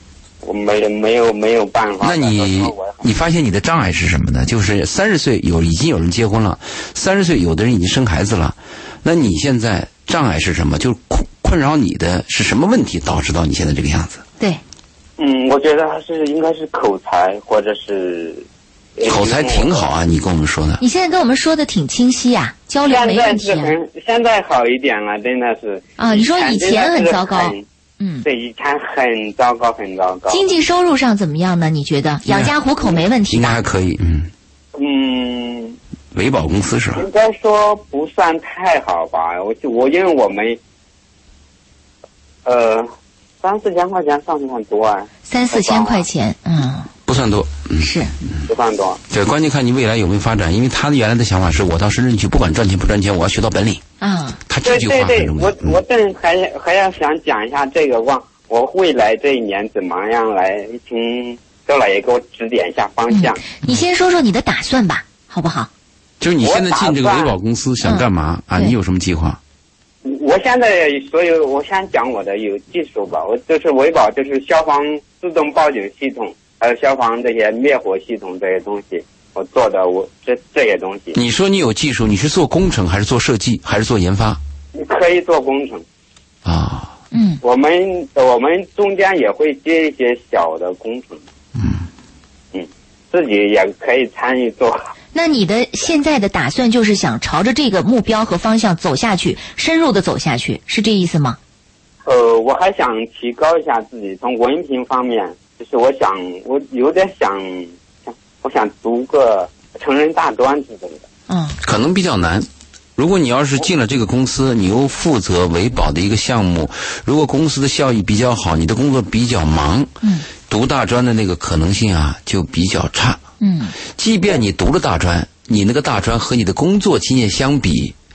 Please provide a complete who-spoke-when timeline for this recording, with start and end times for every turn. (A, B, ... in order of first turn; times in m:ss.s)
0:00.4-0:03.0 A
0:02.0-0:14.2 B
0:15.2-0:18.4 A
0:19.0-0:19.8 A
0:19.1-0:20.8 B
0:20.8-0:23.8 C
0:22.9-0:27.6 A
0:26.0-0:28.3 C
0:28.2-0:30.4 A
0:30.3-0:33.6 C
0:32.3-0:32.6 B
0:33.3-0:34.3 B
0:34.8-0:35.8 A
0:36.1-0:37.1 B
0:37.0-0:40.6 A
0:42.4-0:42.9 A
0:43.4-0:46.0 A
0:45.3-0:46.9 C
0:47.1-0:47.9 B
0:47.8-0:48.1 C
0:48.5-0:49.0 A
0:49.1-0:53.8 B
0:54.0-0:54.4 C
0:54.5-0:55.8 B
0:54.6-1:03.4 A
1:03.1-1:05.7 C
1:06.2-1:09.4 B
1:06.4-1:07.3 A
1:07.8-1:08.8 C
1:10.0-1:21.2 A
1:21.1-1:24.4 B
1:24.7-1:25.8 A
1:26.4-1:26.9 B
1:27.1-1:27.4 C
1:27.4-1:31.2 A
1:31.6-1:31.8 B
1:32.5-1:34.8 A
1:35.1-1:41.4 C
1:42.0-1:51.0 A
1:51.3-1:51.6 C
1:51.6-2:03.2 B
2:00.0-2:00.3 C
2:03.4-2:03.8 C
2:03.8-2:08.0 B